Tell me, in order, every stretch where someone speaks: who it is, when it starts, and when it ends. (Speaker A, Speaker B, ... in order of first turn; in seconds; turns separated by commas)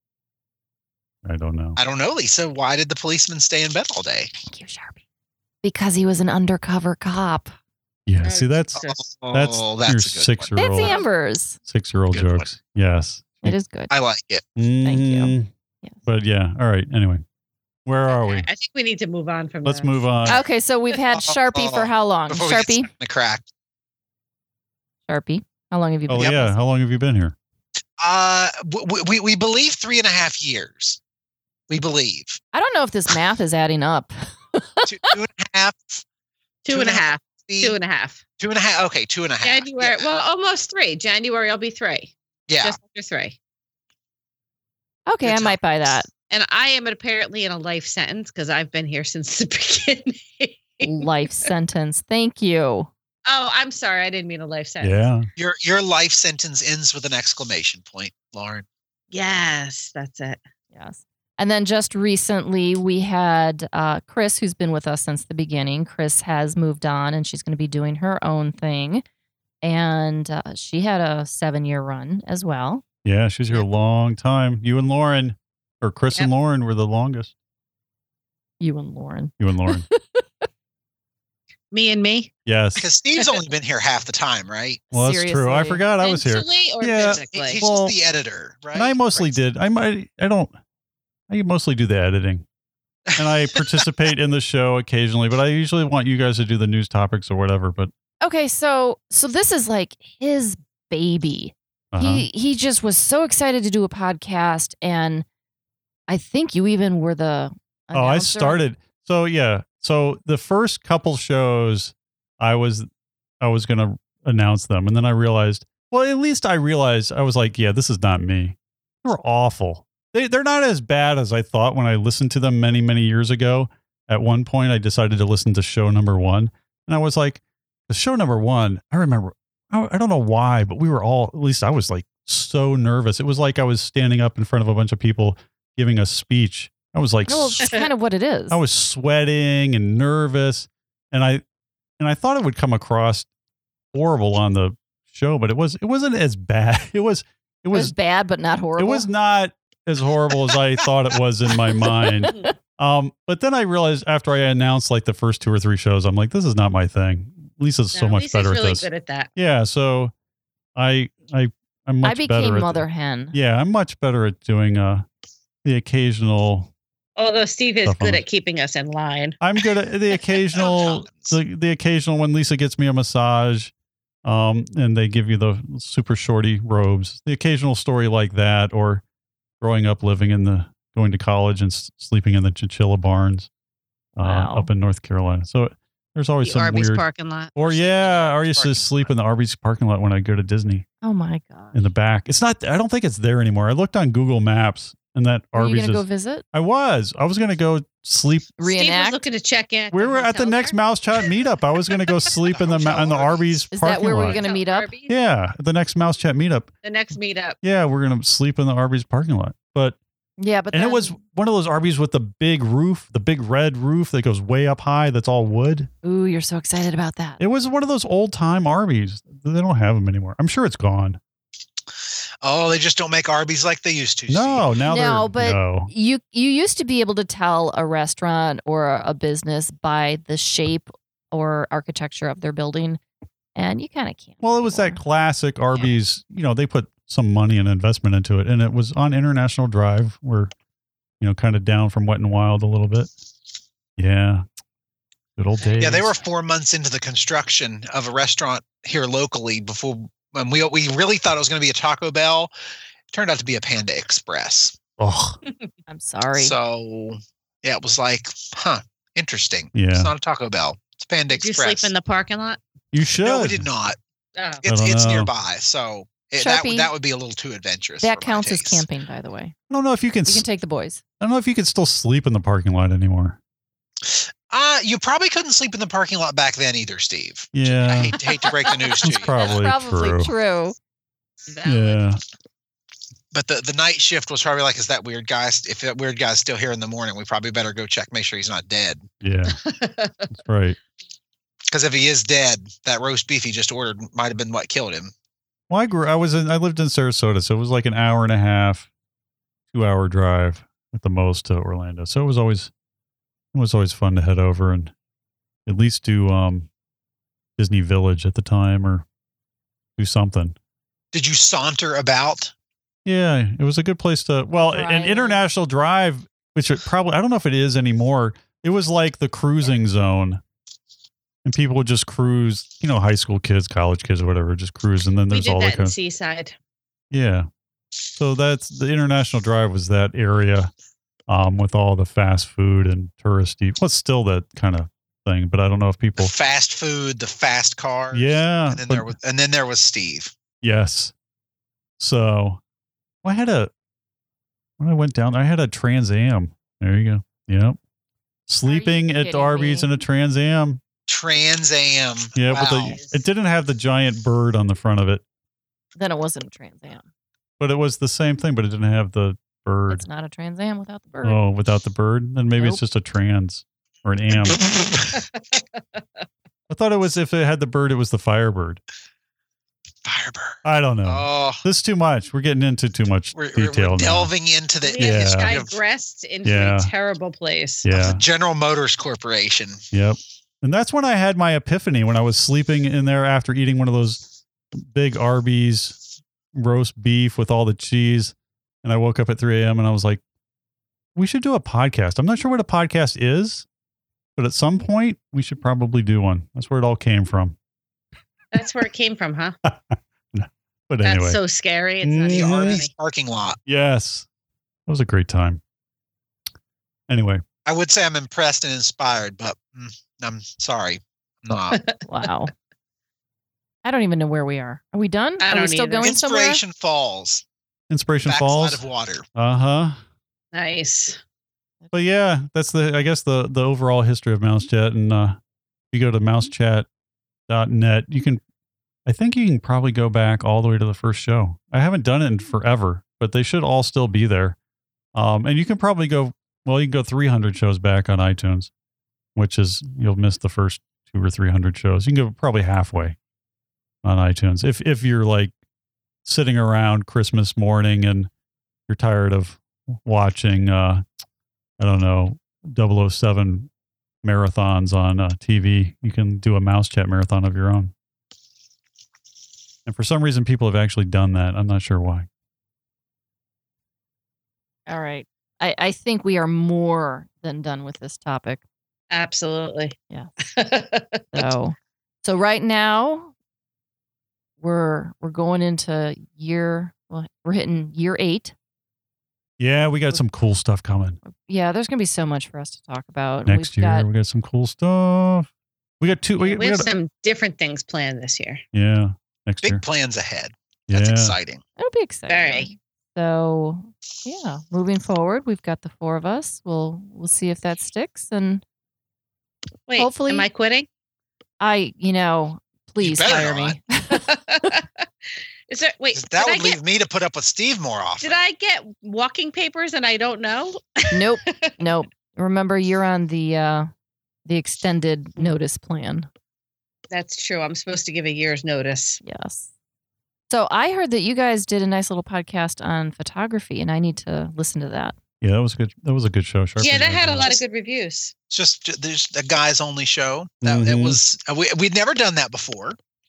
Speaker A: 1.2-1.8, Speaker B: 1.8-4.3, Speaker C: 4.4-5.0, Speaker C: 5.6-7.5, Speaker A: 8.1-8.8, Speaker D: 8.2-9.0, Speaker B: 8.8-10.5, Speaker A: 9.3-11.0, Speaker C: 10.6-11.6, Speaker D: 10.8-11.1, Speaker A: 11.7-13.6, Speaker B: 12.1-12.5, Speaker C: 13.4-13.9, Speaker B: 13.9-14.5, Speaker A: 14.6-15.5, Speaker C: 14.8-16.0, Speaker A: 16.1-17.2, Speaker A: 17.9-18.5, Speaker D: 18.1-20.0, Speaker A: 19.6-20.4, Speaker C: 20.3-22.9, Speaker B: 21.1-23.5, Speaker C: 25.1-26.6, Speaker A: 26.1-27.4, Speaker B: 28.0-31.0, Speaker B: 31.7-32.4, Speaker C: 32.5-35.1, Speaker B: 34.9-36.0, Speaker D: 36.6-38.2, Speaker B: 36.7-37.8, Speaker B: 38.4-40.2, Speaker D: 39.4-43.4, Speaker B: 42.5-42.8, Speaker C: 45.1-46.1, Speaker B: 45.2-45.9, Speaker D: 46.3-51.0, Speaker C: 50.8-52.9, Speaker D: 53.3-55.1, Speaker A: 54.8-55.3, Speaker B: 55.4-58.7, Speaker D: 59.1-60.4, Speaker C: 60.7-69.0, Speaker C: 69.6-72.8, Speaker A: 73.0-77.3, Speaker C: 78.6-80.4, Speaker A: 79.4-79.9, Speaker D: 81.7-82.3, Speaker A: 82.5-82.8, Speaker B: 82.8-84.9, Speaker C: 84.9-85.8, Speaker A: 84.9-88.0, Speaker D: 86.0-87.6, Speaker B: 87.0-89.3, Speaker A: 88.7-90.5, Speaker A: 91.3-92.5, Speaker B: 93.2-93.8, Speaker A: 93.2-97.9, Speaker C: 98.2-105.3, Speaker A: 101.9-102.3, Speaker C: 106.1-108.6, Speaker A: 107.9-112.9, Speaker A: 113.4-137.8, Speaker C: 137.3-138.6, Speaker A: 138.5-141.4, Speaker A: 142.0-143.3, Speaker A: 143.9-147.9, Speaker C: 147.7-149.1, Speaker A: 148.8-160.1, Speaker C: 151.8-152.5, Speaker D: 157.9-159.3, Speaker A: 160.8-165.1, Speaker C: 162.0-163.4, Speaker A: 165.7-166.7, Speaker D: 167.2-169.4, Speaker A: 167.8-168.2, Speaker A: 169.4-173.7, Speaker B: 170.6-171.4, Speaker A: 174.2-179.0, Speaker A: 179.6-183.5, Speaker A: 184.2-190.8, Speaker C: 184.2-184.7, Speaker D: 186.4-188.6, Speaker B: 187.7-188.8, Speaker C: 191.0-191.8, Speaker A: 191.7-198.5, Speaker C: 195.6-196.4, Speaker C: 198.6-199.2, Speaker D: 198.6-201.3, Speaker A: 199.9-204.4, Speaker B: 202.5-203.7, Speaker C: 203.7-204.9, Speaker D: 203.9-205.1, Speaker A: 205.1-206.7, Speaker D: 206.8-207.6, Speaker A: 207.6-210.0, Speaker C: 210.4-211.1, Speaker A: 210.7-215.9, Speaker C: 216.0-217.4, Speaker A: 217.4-221.2, Speaker B: 222.4-224.7, Speaker A: 224.3-225.9, Speaker C: 224.9-233.0, Speaker C: 233.6-235.0, Speaker A: 234.4-240.5, Speaker A: 241.2-243.1, Speaker A: 244.0-244.4, Speaker A: 245.4-246.1, Speaker D: 245.6-246.2, Speaker B: 245.8-252.5, Speaker B: 253.1-254.8, Speaker A: 255.0-255.4, Speaker C: 255.9-256.6, Speaker B: 256.4-261.9, Speaker A: 259.7-260.1, Speaker D: 261.3-262.6, Speaker A: 262.9-263.7, Speaker B: 263.2-264.0, Speaker D: 264.4-264.6, Speaker B: 264.6-268.9, Speaker A: 264.6-265.3, Speaker C: 266.4-266.9, Speaker C: 268.0-269.5, Speaker A: 269.7-270.4, Speaker C: 270.2-271.0, Speaker A: 271.2-273.4, Speaker B: 274.0-279.5, Speaker A: 277.5-278.2, Speaker D: 278.5-278.8, Speaker A: 279.0-280.3, Speaker C: 279.3-280.8, Speaker D: 281.5-282.0, Speaker A: 281.6-282.2, Speaker B: 283.3-289.1, Speaker A: 289.2-289.6, Speaker D: 289.5-290.3, Speaker A: 290.3-290.8, Speaker B: 291.7-295.1, Speaker A: 295.7-298.9, Speaker A: 299.7-302.7, Speaker A: 303.5-304.9, Speaker A: 305.7-306.7, Speaker A: 307.6-309.1, Speaker A: 310.0-310.6, Speaker B: 311.1-312.5, Speaker A: 313.1-320.4, Speaker C: 314.7-315.4, Speaker A: 321.4-326.0, Speaker D: 325.3-326.6, Speaker A: 327.1-327.5, Speaker A: 328.2-330.7, Speaker A: 331.3-336.3, Speaker B: 336.2-340.3, Speaker A: 338.1-339.1, Speaker A: 340.6-341.1, Speaker A: 342.0-342.6, Speaker A: 343.2-343.7, Speaker A: 344.8-347.8, Speaker A: 348.5-350.8, Speaker C: 348.6-349.9, Speaker B: 351.1-353.0, Speaker A: 352.4-355.2, Speaker D: 352.6-353.2, Speaker C: 356.0-357.1, Speaker A: 357.6-360.0, Speaker C: 359.9-361.4, Speaker A: 361.2-364.6, Speaker C: 362.6-362.8, Speaker B: 364.5-365.2, Speaker A: 366.7-368.8, Speaker B: 370.1-371.6, Speaker A: 370.6-374.3, Speaker B: 373.3-375.8, Speaker D: 374.8-377.9, Speaker A: 375.0-375.6, Speaker A: 376.4-376.9, Speaker A: 377.8-378.2, Speaker B: 377.9-379.8, Speaker A: 379.9-386.0, Speaker A: 386.5-390.2, Speaker A: 391.1-393.7, Speaker A: 394.4-397.6, Speaker D: 398.5-399.6, Speaker A: 399.7-401.4, Speaker D: 401.0-402.9, Speaker A: 402.0-402.8, Speaker B: 402.3-403.6, Speaker A: 403.7-404.3, Speaker A: 404.9-405.6, Speaker A: 407.1-407.4, Speaker B: 407.6-411.8, Speaker D: 411.7-412.3, Speaker C: 412.1-412.5, Speaker C: 413.8-416.6, Speaker D: 415.4-416.2, Speaker B: 416.0-417.4, Speaker A: 417.9-418.8, Speaker B: 418.2-419.2, Speaker A: 419.4-420.0, Speaker D: 420.5-421.2, Speaker A: 421.9-425.4, Speaker A: 425.9-426.9, Speaker A: 427.5-428.4, Speaker A: 429.1-434.6, Speaker A: 435.1-438.7, Speaker A: 439.4-443.2, Speaker A: 444.0-445.5, Speaker A: 446.2-448.3, Speaker A: 448.9-451.0, Speaker A: 451.8-453.7, Speaker A: 454.2-457.9, Speaker A: 459.9-462.3, Speaker C: 464.9-468.6, Speaker D: 469.1-471.5, Speaker C: 471.3-473.3, Speaker C: 474.6-478.5, Speaker A: 479.6-481.2, Speaker C: 481.2-484.1, Speaker A: 483.5-485.5, Speaker A: 486.0-486.9, Speaker D: 486.4-488.6, Speaker A: 488.7-489.8, Speaker B: 489.6-491.6, Speaker A: 490.9-491.4, Speaker C: 491.8-498.6, Speaker D: 492.3-492.7, Speaker D: 499.9-500.9, Speaker C: 500.0-500.5, Speaker C: 501.6-504.3, Speaker B: 503.0-503.8, Speaker D: 504.1-505.1, Speaker D: 505.7-506.8, Speaker B: 506.1-508.4, Speaker D: 508.2-511.7, Speaker C: 511.1-513.9, Speaker C: 514.5-516.3, Speaker D: 517.1-519.2, Speaker C: 519.2-519.7, Speaker C: 520.5-525.2, Speaker A: 525.4-527.5, Speaker D: 526.8-528.3, Speaker B: 526.8-527.6, Speaker B: 528.5-533.0, Speaker A: 530.6-531.2